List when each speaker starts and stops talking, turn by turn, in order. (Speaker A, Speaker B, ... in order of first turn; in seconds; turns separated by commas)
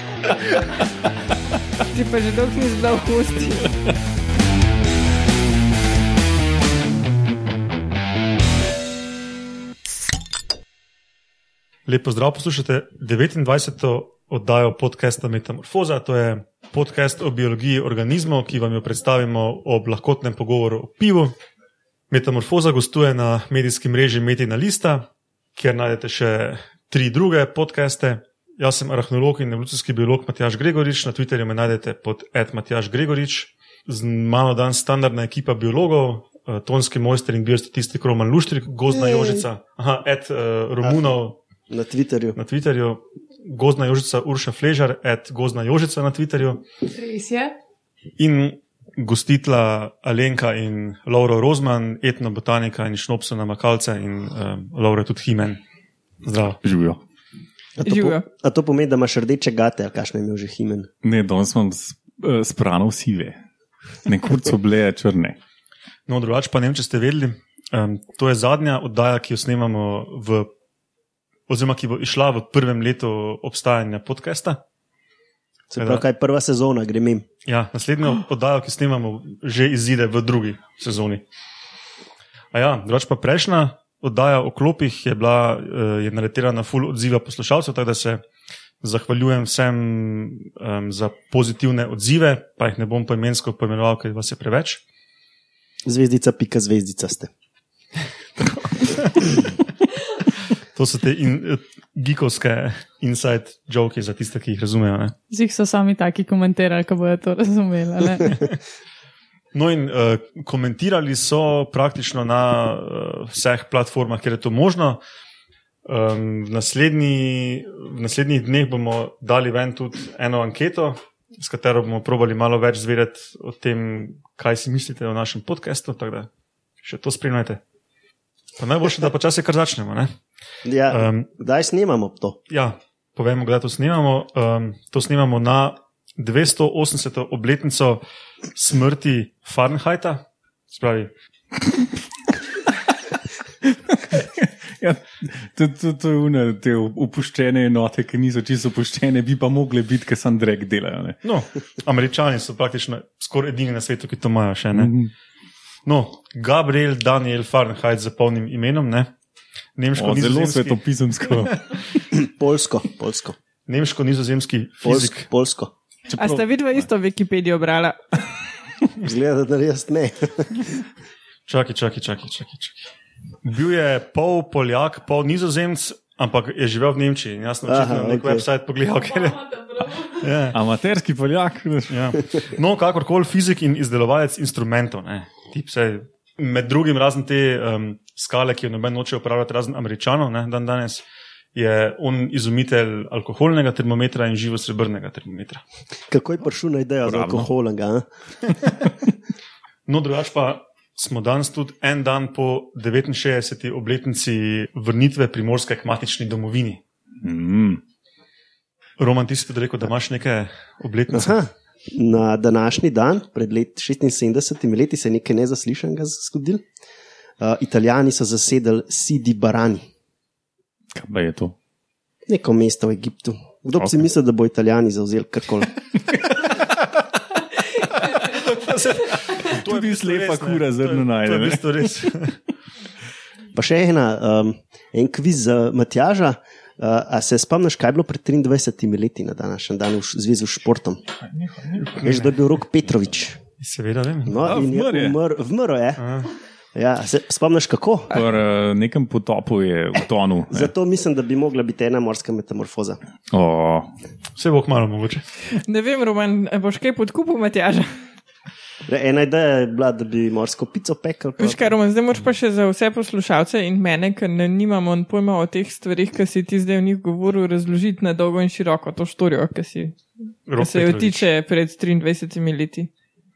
Speaker A: 1.9-3.7, Speaker B: 11.8-21.3, Speaker B: 22.1-41.4, Speaker C: 38.9-39.4, Speaker C: 40.8-41.1, Speaker C: 41.7-42.4, Speaker B: 42.4-46.6, Speaker D: 46.9-47.5, Speaker B: 48.2-55.6, Speaker B: 56.2-56.6, Speaker E: 56.6-57.0, Speaker C: 57.8-60.9, Speaker A: 57.8-58.2, Speaker E: 61.0-63.4, Speaker E: 64.0-65.4, Speaker B: 66.1-70.5, Speaker B: 71.5-74.6, Speaker C: 75.7-77.3, Speaker B: 75.8-76.0, Speaker B: 77.5-81.2, Speaker B: 82.5-88.2, Speaker B: 88.8-94.8, Speaker C: 95.8-97.3, Speaker B: 98.8-99.4, Speaker B: 100.4-105.1, Speaker D: 105.3-108.4, Speaker B: 109.5-115.0, Speaker B: 115.8-126.3, Speaker B: 126.8-127.6, Speaker B: 128.6-130.1, Speaker C: 130.6-132.4, Speaker B: 130.9-131.3, Speaker B: 132.5-138.0, Speaker B: 138.5-141.1, Speaker E: 143.6-151.2, Speaker B: 151.2-154.9, Speaker E: 154.7-155.1, Speaker B: 155.8-159.1, Speaker B: 159.8-161.8, Speaker E: 159.9-161.8, Speaker C: 162.1-163.3, Speaker B: 163.7-165.3, Speaker C: 164.8-165.7, Speaker E: 166.1-166.5, Speaker A: 166.2-168.2, Speaker C: 169.0-170.8, Speaker B: 171.5-172.8, Speaker B: 173.4-180.6, Speaker C: 177.6-178.4, Speaker E: 180.5-182.3, Speaker B: 181.9-191.0, Speaker B: 191.5-195.6, Speaker C: 196.1-198.1, Speaker E: 197.0-197.5, Speaker B: 199.9-206.8, Speaker E: 207.2-207.8, Speaker B: 209.0-211.4, Speaker C: 211.1-216.6, Speaker C: 217.4-219.9, Speaker E: 220.9-221.5, Speaker C: 222.3-225.7, Speaker B: 228.1-232.4, Speaker E: 229.3-231.9, Speaker C: 233.5-241.1, Speaker E: 241.3-242.2, Speaker C: 242.0-243.4, Speaker B: 243.6-244.4, Speaker C: 244.2-246.0, Speaker E: 244.4-245.2, Speaker B: 246.0-246.3, Speaker C: 246.7-248.1, Speaker E: 248.1-250.7, Speaker C: 250.5-253.0, Speaker E: 253.3-253.9, Speaker B: 254.3-255.3, Speaker A: 255.5-258.1, Speaker C: 258.9-261.7, Speaker A: 261.4-270.0, Speaker B: 270.5-271.3, Speaker A: 270.6-272.9